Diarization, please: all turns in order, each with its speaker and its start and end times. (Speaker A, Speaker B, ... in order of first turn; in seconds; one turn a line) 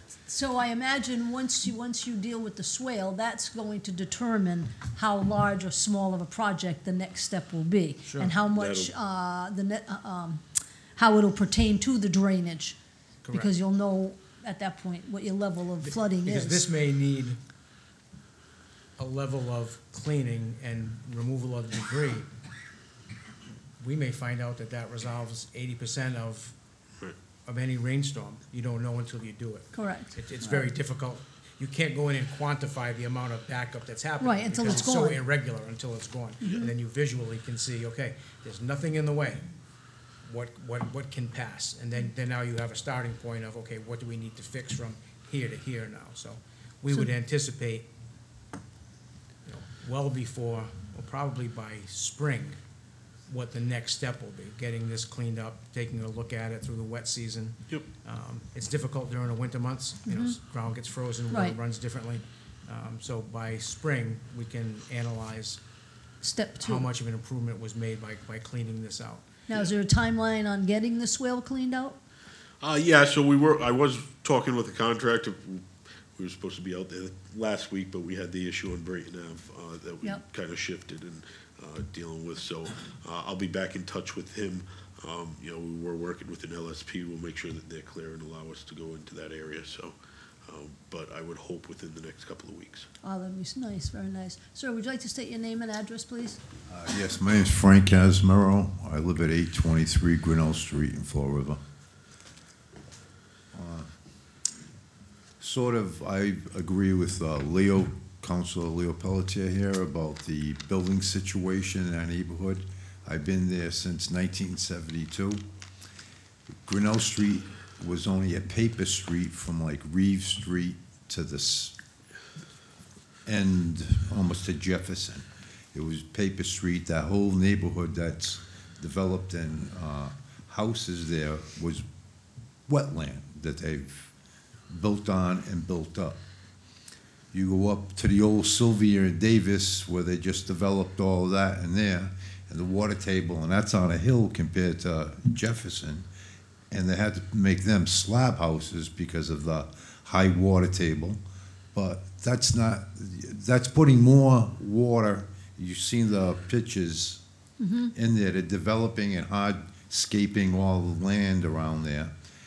Speaker A: 0.3-12.8
Speaker B: 8.1-8.3
Speaker C: 8.4-8.9
Speaker B: 13.2-13.5
Speaker A: 13.3-16.7
Speaker B: 15.8-17.4
Speaker B: 19.0-22.3
Speaker B: 23.8-26.6
Speaker B: 27.4-39.4
Speaker A: 29.7-30.6
Speaker A: 34.2-35.2
Speaker A: 36.4-36.7
Speaker B: 40.2-47.9
Speaker B: 49.4-52.6
Speaker B: 53.3-65.6
Speaker A: 60.0-60.4
Speaker A: 61.3-61.6
Speaker A: 66.2-66.9
Speaker B: 66.6-69.2
Speaker A: 69.5-72.0
Speaker C: 72.6-92.9
Speaker A: 93.0-96.4
Speaker D: 96.7-101.6
Speaker D: 103.5-103.9
Speaker D: 105.4-115.4
Speaker D: 116.6-121.7
Speaker D: 123.3-131.8
Speaker D: 132.7-134.1
Speaker D: 134.7-136.2
Speaker D: 137.3-146.1
Speaker D: 146.7-151.2
Speaker D: 151.7-157.2
Speaker A: 157.6-157.9
Speaker D: 157.9-162.1